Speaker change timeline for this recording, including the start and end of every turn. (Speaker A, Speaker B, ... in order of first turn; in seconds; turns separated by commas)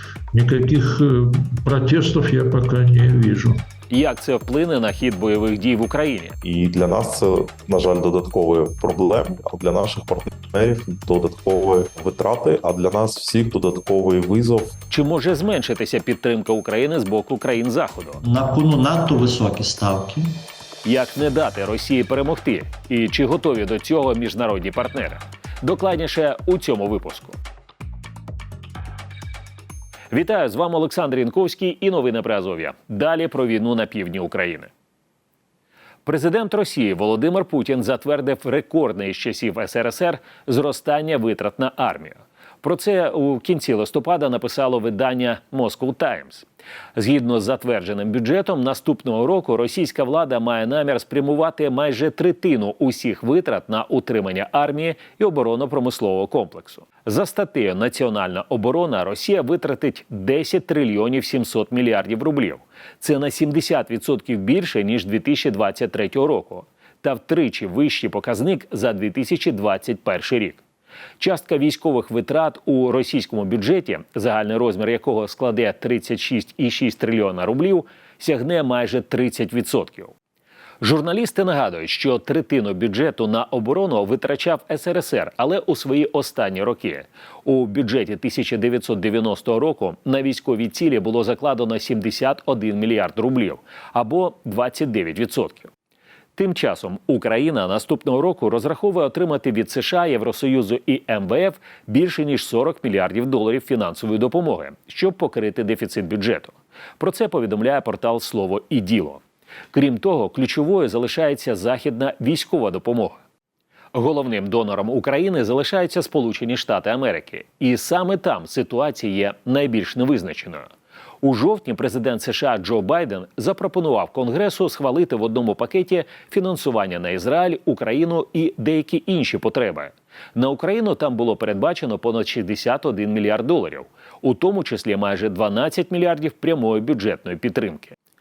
Speaker A: 0.3-3.6, Speaker B: 3.9-6.4, Speaker C: 6.4-14.7, Speaker B: 14.9-18.2, Speaker D: 18.2-20.4, Speaker B: 20.8-27.4, Speaker B: 30.1-34.7, Speaker B: 36.0-70.6, Speaker B: 71.2-80.1, Speaker B: 80.8-95.7, Speaker B: 96.3-109.2, Speaker B: 109.7-113.2, Speaker B: 113.9-120.7, Speaker B: 121.2-138.0